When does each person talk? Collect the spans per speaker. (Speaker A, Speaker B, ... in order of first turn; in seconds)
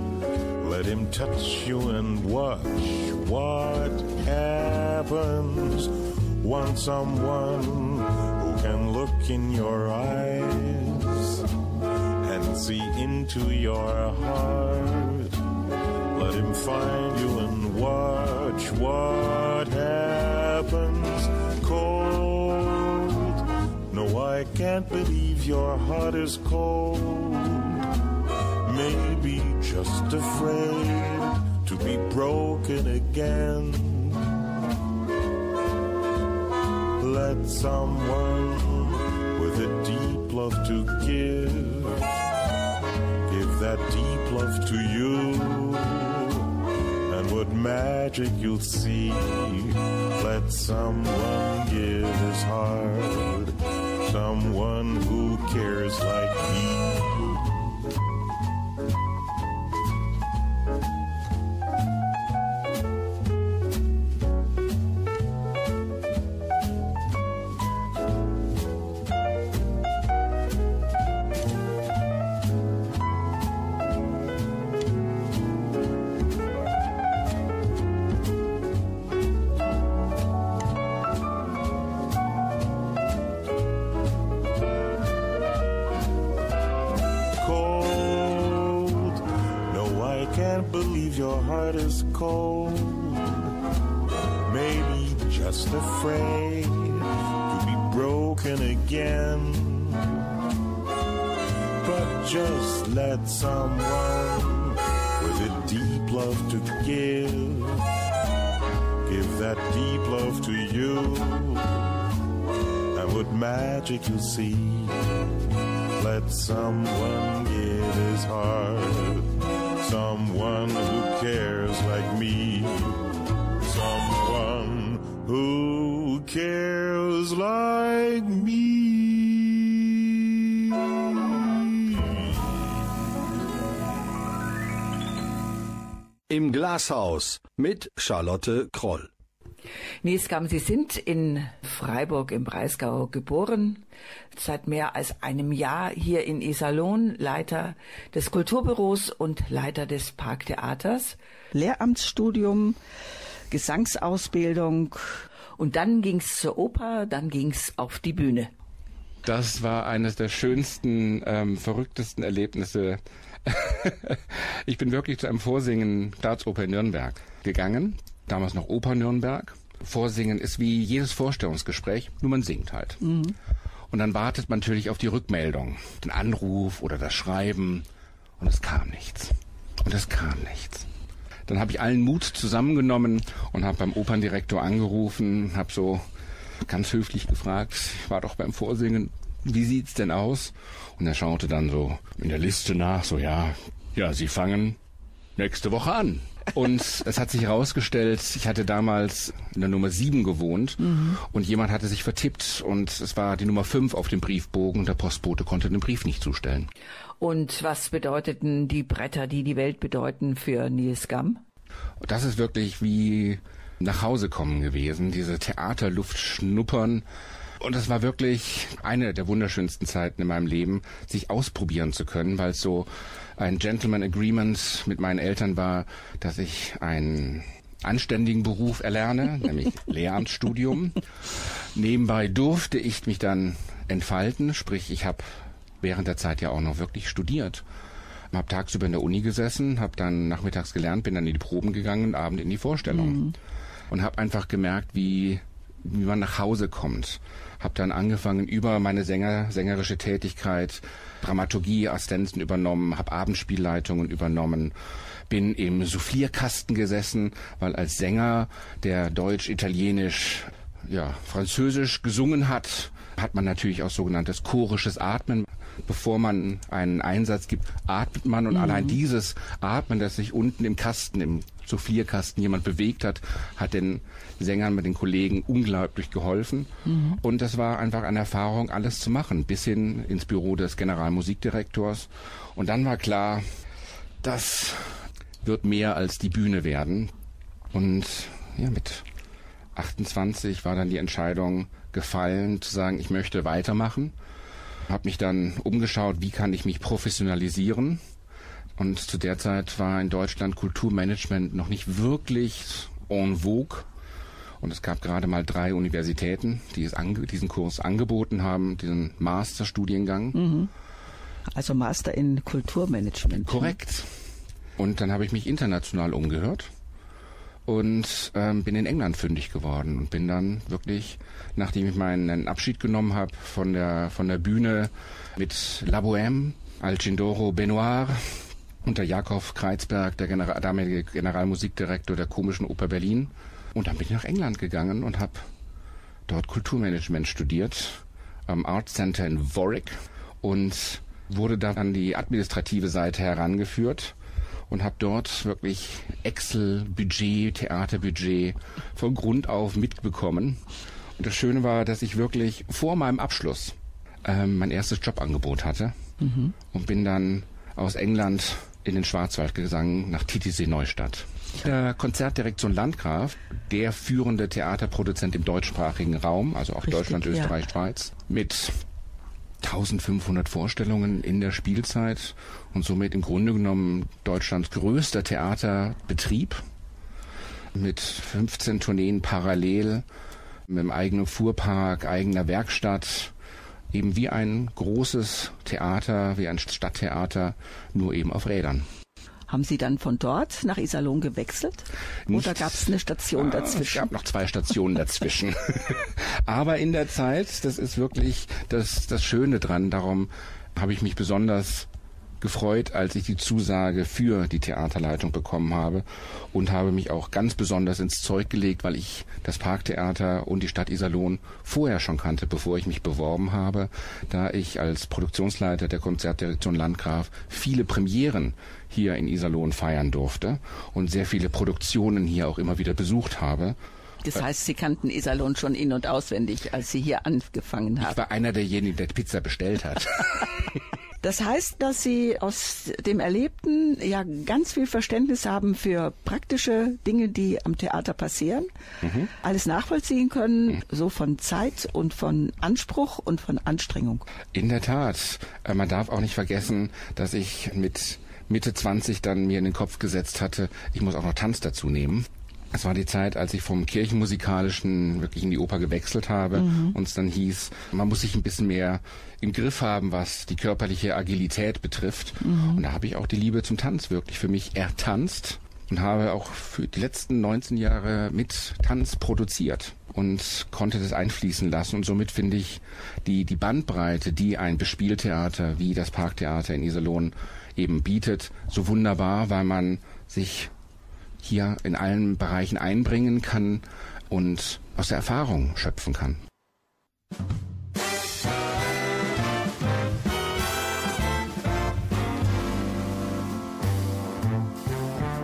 Speaker A: 0.6-11.4, 12.2-15.4, 16.1-27.8, 28.6-34.4, 37.0-42.1, 43.2-46.5, 47.1-57.5, 87.4-93.5, 94.5-100.2, 101.8-107.8, 109.0-112.0, 112.9-115.2, 115.9-123.0, 123.6-130.3, 131.1-132.0
Speaker B: 136.3-139.1
Speaker C: 140.0-151.2, 155.6-158.5, 207.2-211.4
Speaker D: 151.5-152.8, 153.5-155.2, 173.0-173.3, 200.8-201.2, 242.9-243.3, 276.9-277.2, 310.3-310.7, 311.5-313.8, 356.2-356.5, 367.1-367.5, 389.5-394.1, 424.2-428.2, 431.2-438.7, 439.4-444.2, 456.6-456.9, 462.4-462.8
Speaker E: 159.2-173.0, 173.9-177.8, 178.4-180.9, 181.5-186.0, 186.6-194.8, 195.3-206.7, 212.0-217.0, 217.6-231.0, 231.7-235.3, 235.8-237.6, 238.3-243.2, 243.9-254.7, 255.3-283.4, 284.2-287.1, 287.7-289.1, 289.7-294.1, 294.9-298.0, 298.8-303.9, 304.6-310.4, 313.3-314.1, 314.8-316.7, 317.6-335.5, 336.3-344.1, 344.7-350.6, 351.2-355.9, 356.7-368.8, 369.6-376.6, 377.7-380.0, 380.7-383.3, 383.9-388.9, 392.3-401.9, 402.4-423.8, 428.0-430.4, 439.0-439.3, 444.5-480.7, 481.4-486.4